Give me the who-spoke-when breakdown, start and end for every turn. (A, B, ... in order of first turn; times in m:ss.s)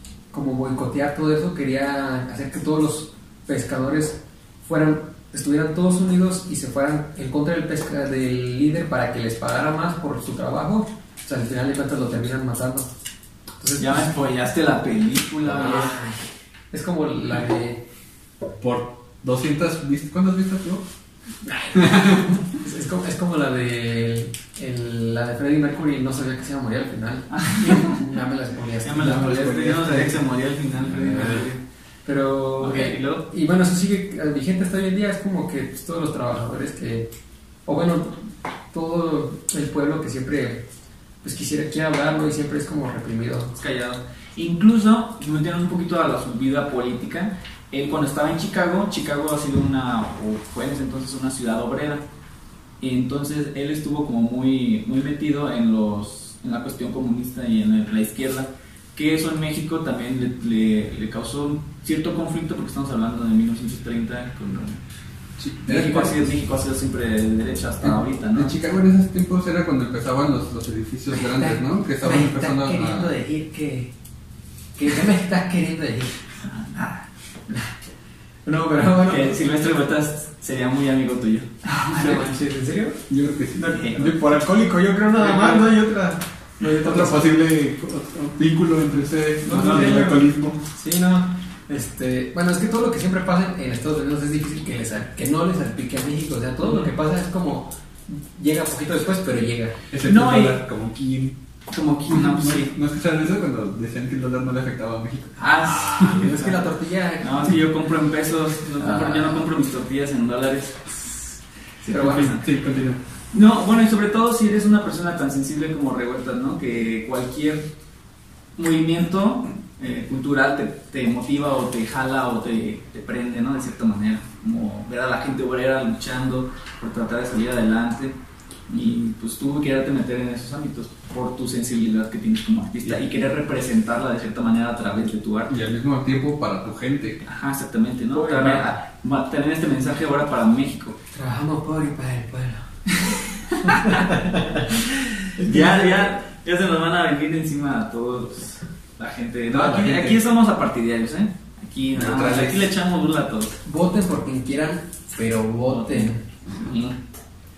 0:00.3-0:12.9 A
0:13.6-0:14.1 A
0:13.8-0:16.0 B
0:15.4-0:17.8 A
0:18.6-0:20.8 C
0:21.4-0:29.8 A
0:21.7-0:22.4 C
0:27.3-0:28.0 B
0:28.8-0:31.6 B
0:29.0-0:30.2 C
0:30.8-0:31.4 C
0:31.1-0:31.4 A
0:32.0-0:37.1 A
0:32.6-0:33.3 B
0:37.6-0:40.7 A
0:41.2-0:43.5 A
0:43.6-0:52.0 B
0:52.8-1:04.8 B
1:05.4-1:06.3 C
1:05.6-1:08.5 B
1:07.8-1:13.2 C
1:11.1-1:13.9 A
1:14.7-1:16.2 A
1:16.4-1:17.0 B
1:18.4-1:19.4 A
1:19.0-1:22.2 B
1:21.7-1:23.0 A
1:23.1-1:24.1 C
1:23.5-1:27.3 A
1:23.7-1:24.1 B
1:25.2-1:25.6 B
1:26.6-1:30.6 C
1:29.4-1:39.8 A
1:29.5-1:30.1 B
1:36.6-1:36.9 B
1:39.9-1:41.4 C
1:40.0-1:40.6 B
1:41.7-1:42.7 B
1:42.1-1:46.3 C
1:45.4-1:46.6 B
1:45.5-1:47.6 A
1:47.2-1:52.4 B
1:48.8-1:49.4 A
1:51.9-1:52.3 A
1:52.0-1:53.0 C
1:53.3-1:57.7 B
1:58.6-2:08.2 B
2:08.7-2:15.5 B
2:15.5-2:17.2 C
2:17.2-2:21.0 B
2:18.1-2:18.7 A
2:21.1-2:26.1 A
2:22.9-2:24.1 B
2:25.4-2:33.6 B
2:29.5-2:30.2 C
2:31.9-2:32.7 C
2:33.6-2:36.3 A
2:35.7-2:37.0 B